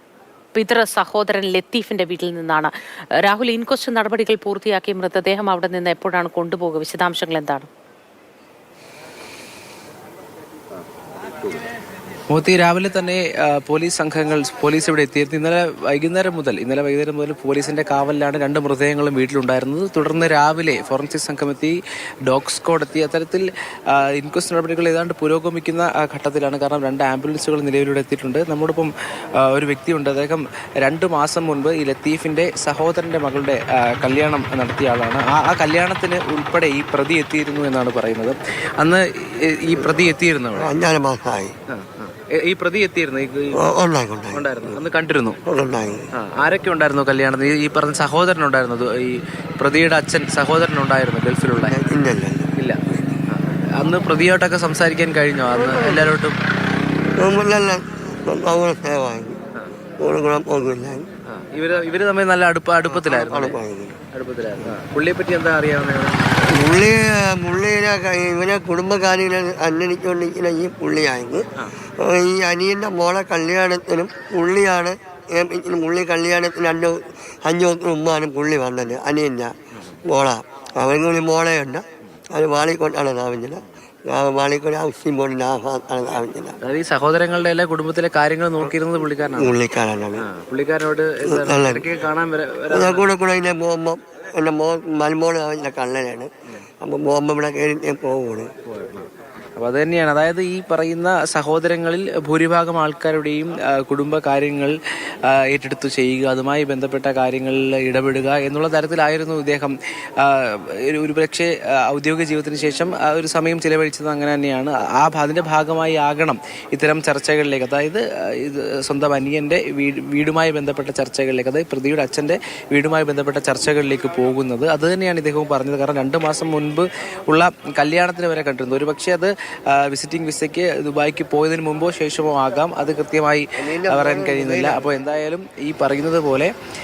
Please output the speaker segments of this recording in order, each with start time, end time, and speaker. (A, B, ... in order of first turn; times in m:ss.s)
0:00.5-0:07.7 A
0:12.3-0:40.7 B
0:40.6-0:41.5 C
0:41.7-0:43.6 B
0:43.5-0:44.8 C
0:44.3-0:45.4 B
0:45.4-0:46.1 C
0:46.1-0:51.8 B
0:51.7-0:52.5 C
0:52.6-0:56.4 B
0:55.5-0:56.1 C
0:57.2-0:59.4 C
1:00.0-1:01.1 C
1:01.3-1:03.6 B
1:02.9-1:04.0 C
1:04.1-1:06.2 B
1:06.5-1:11.4 C
1:12.0-1:19.5 C
1:20.0-1:26.6 C
1:26.6-1:29.6 B
1:29.4-1:30.2 C
1:30.2-1:33.1 B
1:31.2-1:31.9 C
1:32.7-1:36.3 C
1:36.8-1:38.5 C
1:38.7-1:44.7 B
1:45.3-2:16.5 B
2:13.6-2:14.9 C